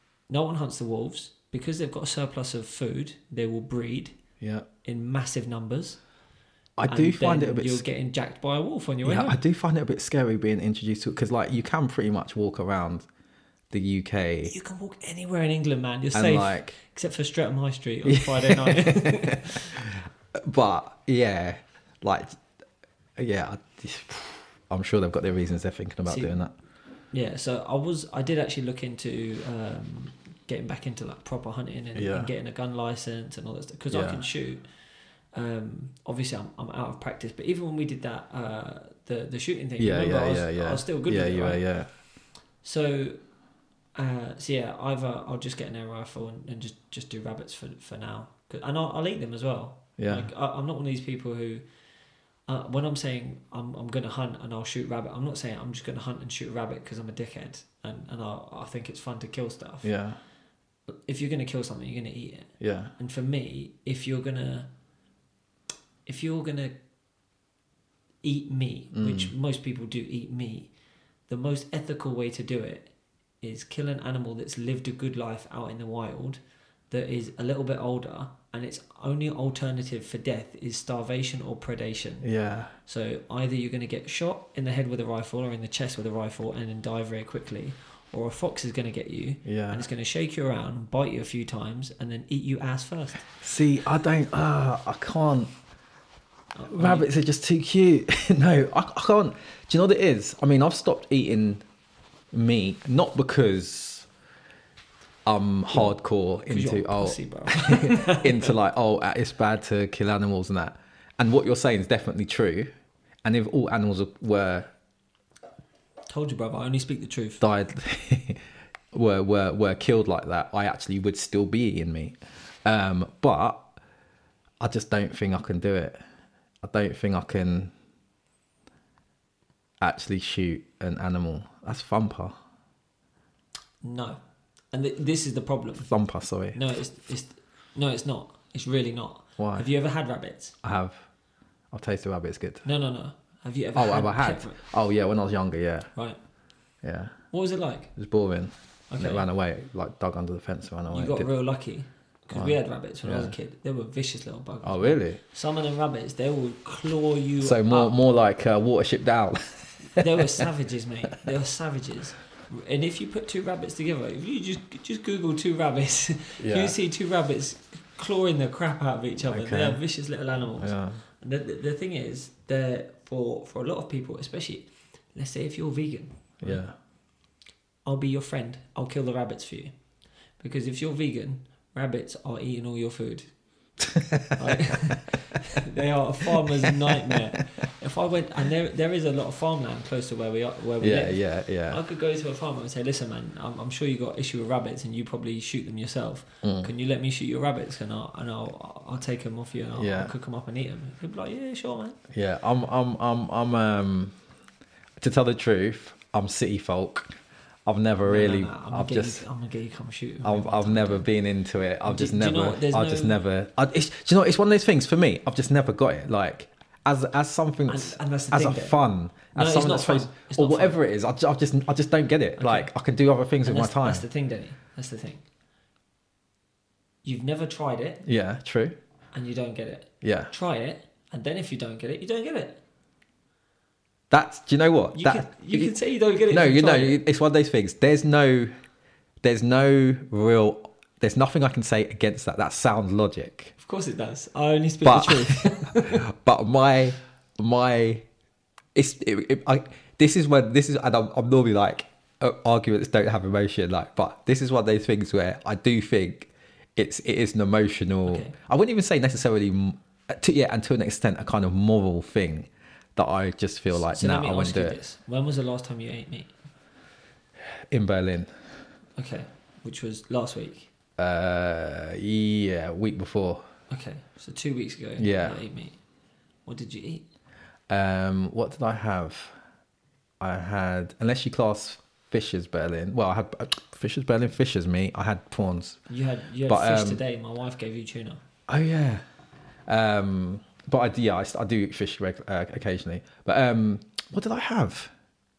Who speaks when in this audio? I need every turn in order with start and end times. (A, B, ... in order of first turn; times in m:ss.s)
0:00.3-0:04.2 A
0:04.4-0:04.7 B
0:04.8-0:06.0 A
0:06.8-0:07.8 B
0:06.9-0:09.4 A
0:09.0-0:13.1 B
0:13.7-0:14.5 B
0:14.5-0:19.7 A
0:16.1-0:16.8 B
0:18.0-0:22.4 B
0:23.2-0:26.5 B
0:26.0-0:26.4 A
0:27.1-0:34.6 A
0:31.9-0:32.3 B
0:33.9-0:34.2 B
0:35.3-0:41.6 A
0:39.8-0:41.9 B
0:42.6-0:43.2 A
0:43.9-0:51.6 A
0:50.0-0:50.3 B
0:52.5-0:59.9 A
0:59.8-1:00.2 B
1:00.9-1:04.7 A
1:02.6-1:02.9 B
1:06.0-1:06.8 A
1:08.2-1:10.7 A
1:08.9-1:09.3 B
1:11.3-1:12.9 A
1:13.4-1:22.3 A
1:22.2-1:22.7 B
1:22.8-1:33.2 A
1:29.4-1:29.8 B
1:33.4-1:35.5 B
1:36.5-1:37.1 A
1:36.7-1:41.6 B
1:42.3-1:44.1 B
1:45.2-1:52.7 B
1:46.5-1:48.5 A
1:53.2-1:54.7 B
1:56.1-1:57.4 A
1:57.4-2:03.7 B
2:04.6-2:06.0 B
2:06.6-2:07.7 B
2:09.8-2:12.4 B
2:13.8-2:14.2 A
2:14.7-2:15.9 A
2:15.8-2:16.6 B
2:16.5-2:20.6 A
2:19.4-2:19.7 B
2:20.6-2:21.0 B
2:21.7-2:22.6 B
2:22.6-2:24.6 A
2:23.7-2:25.9 B
2:26.8-2:27.1 B
2:27.3-2:27.9 A
2:28.0-2:31.3 B
2:28.9-2:29.2 A
2:30.9-2:37.9 A
2:32.3-2:33.3 B
2:34.6-2:35.2 B
2:37.4-2:40.5 B
2:39.9-2:56.6 A
2:46.4-2:46.7 B
2:49.3-2:49.8 B
2:50.6-2:51.0 B
2:56.4-2:56.7 B
2:57.8-2:59.7 A
3:00.4-3:03.3 A
3:03.9-3:04.9 B
3:04.4-3:22.0 A
3:10.8-3:11.8 B
3:16.4-3:16.7 B
3:19.8-3:20.1 B
3:22.1-3:24.1 B
3:25.0-3:27.1 B
3:27.6-3:29.2 B
3:28.0-3:31.0 A
3:30.2-3:44.0 B
3:31.8-3:33.2 A
3:37.7-3:38.8 A
3:39.3-3:40.8 A
3:42.4-3:42.7 A
3:43.4-3:45.2 A
3:47.0-3:48.0 A
3:48.0-3:48.8 B
3:49.1-3:52.6 A
3:50.0-3:50.3 B
3:54.1-3:55.7 B
3:54.9-3:57.0 A
3:56.3-3:58.5 B
3:59.2-4:03.5 B
4:03.6-4:06.0 A
4:04.8-4:08.0 B
4:08.7-4:24.8 B
4:18.0-4:18.3 A
4:23.7-4:26.3 A
4:27.7-4:28.3 B
4:29.0-4:30.7 A
4:31.0-4:33.4 B
4:33.7-4:35.8 A
4:35.0-4:35.4 B
4:36.4-4:37.0 A
4:37.7-4:39.3 B
4:40.2-4:45.8 B
4:45.9-4:48.2 A
4:46.5-4:47.0 B
4:48.5-4:49.0 B
4:49.7-4:54.9 B